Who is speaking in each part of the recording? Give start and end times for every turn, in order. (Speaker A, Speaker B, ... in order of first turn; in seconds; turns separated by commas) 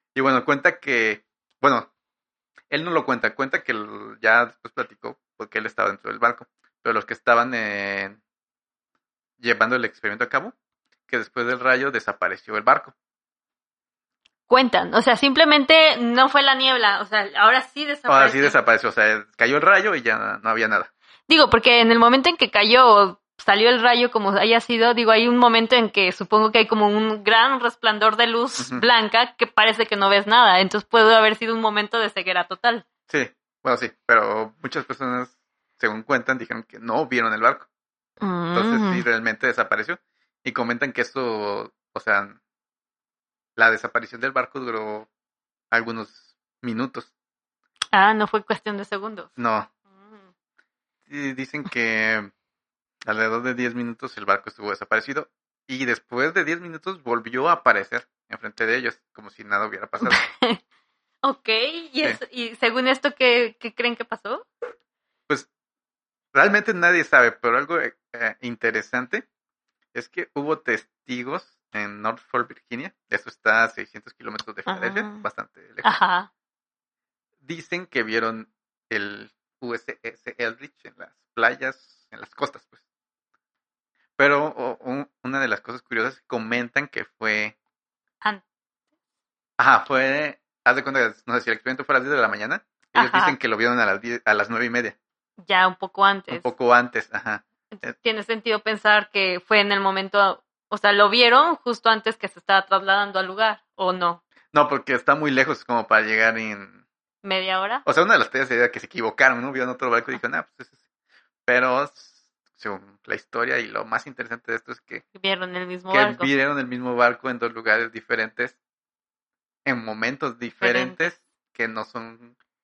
Speaker A: 0.1-1.9, Speaker A: 2.7-8.2, Speaker A: 9.4-10.5, Speaker A: 11.1-12.9, Speaker B: 14.5-18.6, Speaker A: 18.1-20.9, Speaker B: 21.3-32.9, Speaker A: 28.6-28.8, Speaker A: 33.1-37.7, Speaker B: 38.2-39.0, Speaker A: 38.5-42.4, Speaker A: 43.6-45.1, Speaker A: 45.7-47.1, Speaker B: 47.9-49.3, Speaker A: 49.4-49.7, Speaker A: 51.1-52.3, Speaker A: 53.0-60.2, Speaker B: 60.0-60.6, Speaker B: 61.2-64.5, Speaker A: 66.3-69.2, Speaker A: 69.9-76.0, Speaker B: 74.7-75.2, Speaker B: 75.8-76.3, Speaker A: 77.4-82.8, Speaker A: 84.2-87.5, Speaker A: 89.6-95.0, Speaker B: 92.9-93.3, Speaker B: 95.4-96.5, Speaker A: 96.3-97.9, Speaker B: 97.7-104.2, Speaker A: 104.5-106.8, Speaker B: 107.2-107.8, Speaker A: 107.8-110.7, Speaker A: 111.5-115.0, Speaker B: 115.1-116.3, Speaker A: 115.9-118.6, Speaker A: 119.6-122.3, Speaker B: 120.6-121.1